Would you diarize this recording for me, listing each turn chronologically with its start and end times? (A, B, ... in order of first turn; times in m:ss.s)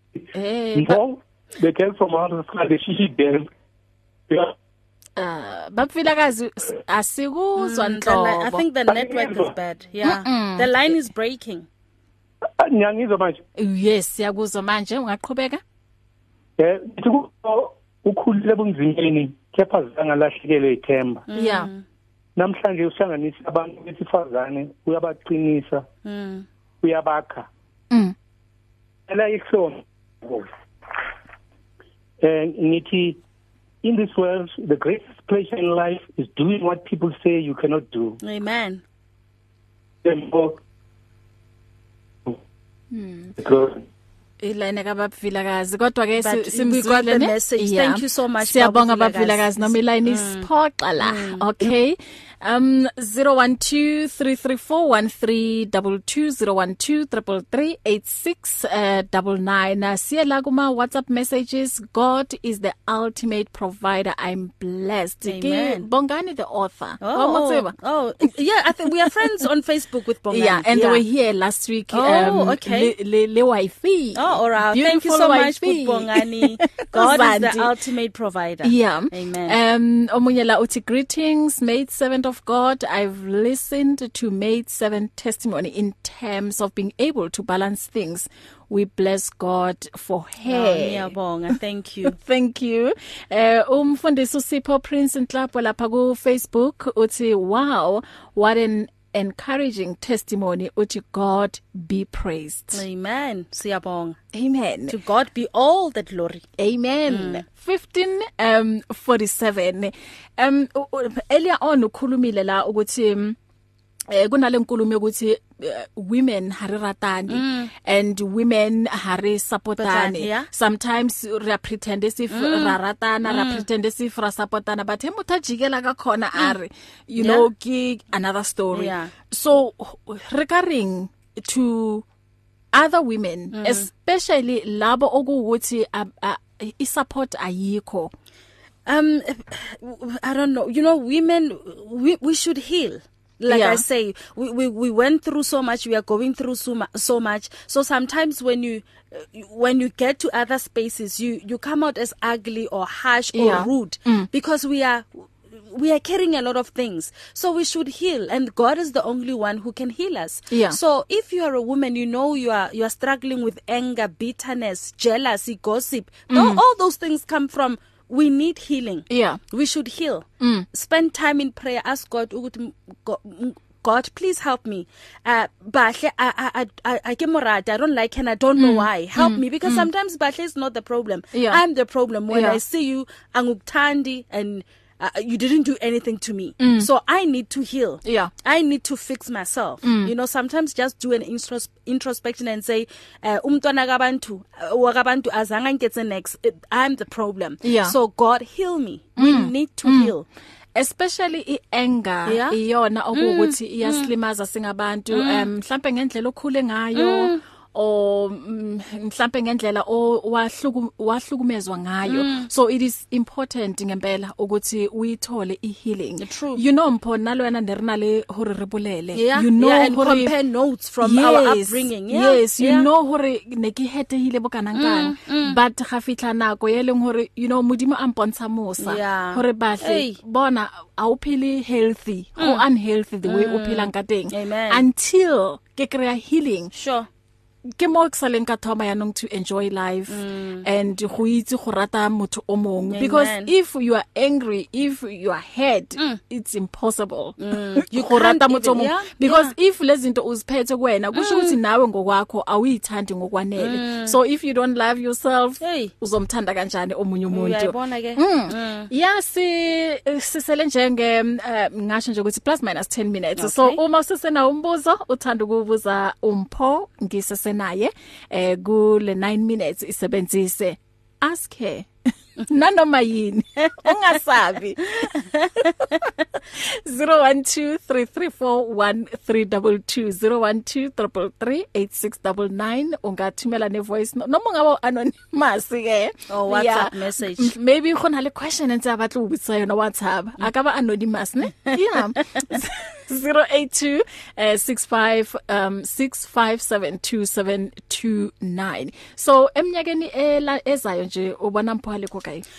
0:00.3-0:01.0 A
0:00.8-0:03.5 B
0:04.3-0:04.5 B
0:05.2-0:08.6 A
0:07.6-0:11.7 C
0:08.9-0:09.5 B
0:10.0-0:10.7 A
0:12.6-0:13.4 B
0:13.6-0:15.6 A
0:16.6-0:21.2 B
0:21.3-0:21.8 C
0:21.4-0:21.7 A
0:22.4-0:25.9 B
0:26.0-0:26.5 C
0:26.8-0:27.5 B
0:29.1-0:30.5 B
0:32.2-0:33.2 B
0:33.8-0:38.2 B
0:38.2-0:38.8 C
0:40.0-0:40.6 B
0:42.9-0:43.4 A
0:43.4-0:43.8 B
0:44.4-1:07.7 A
0:46.2-0:50.5 C
0:51.0-0:51.4 C
1:05.3-1:05.9 C
1:07.0-1:11.0 C
1:10.3-1:17.7 A
1:11.9-1:12.9 C
1:14.2-1:19.6 C
1:18.6-1:31.1 A
1:30.5-1:32.2 C
1:32.1-1:42.8 A
1:42.7-1:44.2 C
1:44.3-1:45.0 A
1:44.9-1:46.5 C
1:46.6-1:53.4 A
1:47.1-1:47.4 C
1:54.1-2:12.0 A
1:57.3-1:57.7 C
1:59.8-2:00.5 C
2:02.3-2:03.6 C
2:07.2-2:07.5 C
2:08.7-2:09.1 C
2:12.7-2:18.1 A
2:13.5-2:13.9 C
2:18.9-3:20.2 C
2:23.5-2:23.8 A
2:33.3-2:34.3 A
2:40.5-2:40.8 A
2:46.3-2:46.6 A
2:49.1-2:49.4 A
2:50.4-2:50.7 A
2:58.6-2:59.9 A
3:01.3-3:01.6 A
3:02.3-3:02.6 A
3:06.6-3:06.9 A
3:08.0-3:08.3 A
3:09.8-3:10.1 A
3:17.6-3:18.0 A
3:19.2-3:20.1 A
3:20.8-3:40.3 A
3:22.3-3:22.6 C
3:23.1-3:24.1 C
3:25.1-3:25.5 C
3:27.0-3:27.4 C
3:32.1-3:32.5 C
3:36.2-3:36.6 C
3:39.1-3:42.9 C
3:41.0-3:56.7 A
3:44.8-3:45.6 C
3:48.8-3:50.2 C
3:53.2-3:54.8 C
3:56.7-3:57.1 C
3:57.8-4:31.9 A
4:00.1-4:00.6 C
4:02.9-4:03.5 C
4:07.4-4:09.5 C
4:11.1-4:11.6 C
4:13.6-4:14.2 C
4:15.6-4:15.9 C
4:17.3-4:18.9 C
4:23.4-4:23.8 C
4:32.4-5:02.4 A
4:46.3-4:47.6 C